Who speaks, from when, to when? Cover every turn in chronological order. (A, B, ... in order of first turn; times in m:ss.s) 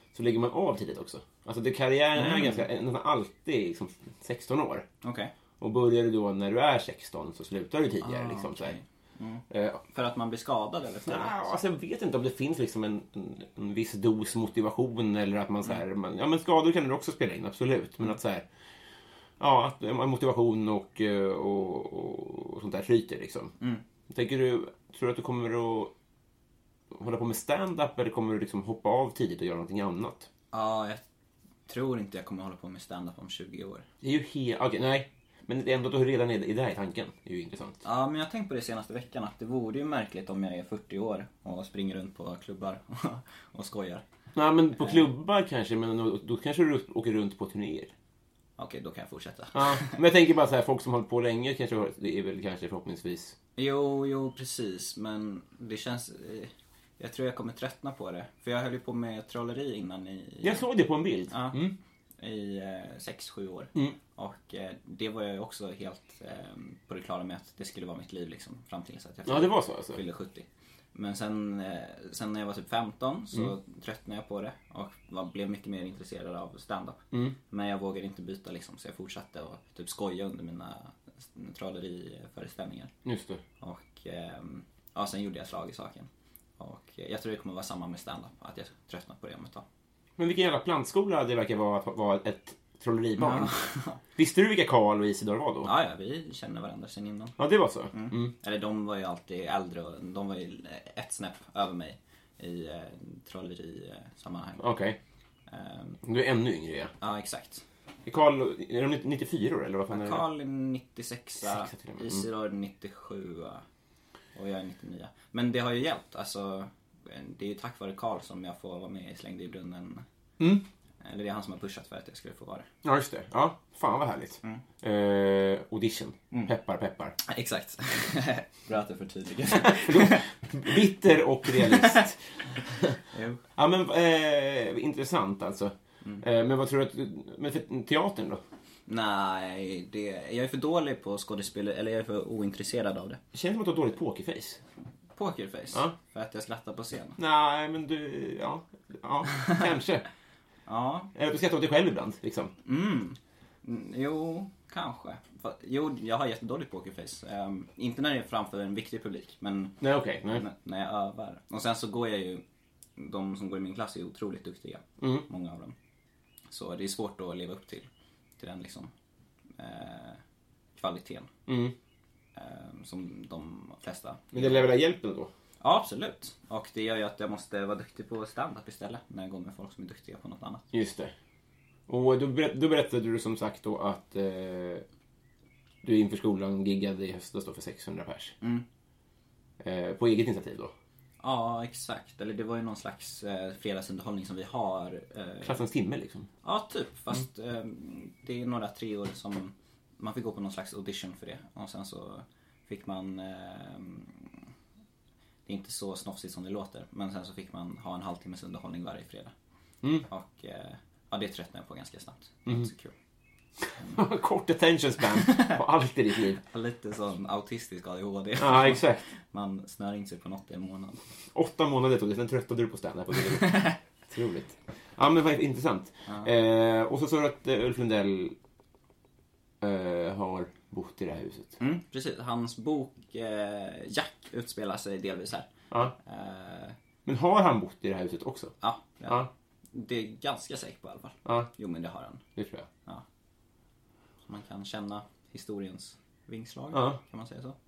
0:00.1-0:04.9 A
0:02.1-0:02.6 B
0:05.0-0:05.3 B
0:05.6-0:08.8 A
0:08.0-0:11.5 B
0:09.5-0:09.8 A
0:11.1-0:18.5 A
0:19.4-0:23.5 A
0:24.1-0:25.9 A
0:26.9-0:30.3 A
0:30.5-0:31.0 B
0:31.7-0:33.8 B
0:34.0-0:37.8 A
0:37.8-0:44.0 B
0:44.3-0:47.9 A
0:44.7-0:45.1 B
0:48.6-0:50.0 B
0:49.5-0:53.3 A
0:53.6-1:00.6 B
1:00.4-1:01.7 A
1:01.3-1:22.9 B
1:09.2-1:10.0 A
1:23.0-1:23.4 A
1:23.6-1:29.6 B
1:30.2-1:35.7 A
1:33.2-1:34.0 B
1:35.6-1:37.4 B
1:37.4-1:38.3 A
1:37.9-1:44.7 B
1:44.6-1:45.0 A
1:45.5-1:46.0 B
1:46.0-1:46.9 A
1:47.0-1:47.6 B
1:48.0-1:50.2 A
1:49.9-1:53.6 B
1:51.4-1:52.2 A
1:54.3-2:00.0 B
2:00.4-2:00.6 A
2:01.0-2:02.7 B
2:02.8-2:07.1 A
2:07.2-2:10.8 B
2:09.6-2:13.0 A
2:11.5-2:12.0 B
2:13.1-2:13.4 B
2:13.6-2:18.4 A
2:18.9-2:23.2 B
2:23.3-2:24.6 A
2:25.1-2:27.2 B
2:27.2-2:30.0 A
2:30.7-2:31.1 B
2:31.1-2:32.5 A
2:32.6-2:42.4 B
2:39.8-2:40.4 A
2:43.0-2:45.7 B
2:45.0-2:45.3 A
2:46.5-2:48.9 B
2:49.6-2:50.2 B
2:50.8-2:51.3 B
2:51.5-2:51.7 A
2:52.3-2:54.7 B
2:54.3-2:55.3 A
2:55.6-3:00.7 B
3:00.7-3:01.1 A
3:01.9-3:04.8 A
3:05.8-3:08.3 A
3:09.6-3:10.7 A
3:11.2-3:15.6 B
3:15.4-3:16.3 A
3:16.4-3:24.3 B
3:25.4-3:29.3 B
3:30.0-3:32.9 B
3:33.8-3:36.4 A
3:35.2-3:35.6 B
3:36.4-3:41.0 B
3:38.4-3:39.0 A
3:41.3-3:48.4 A
3:43.4-3:43.7 B
3:49.6-3:51.6 A
3:51.6-3:56.8 B
3:57.0-3:58.5 A
3:58.6-4:02.2 B
4:02.4-4:02.7 A
4:04.3-4:07.6 B
4:06.7-4:07.0 A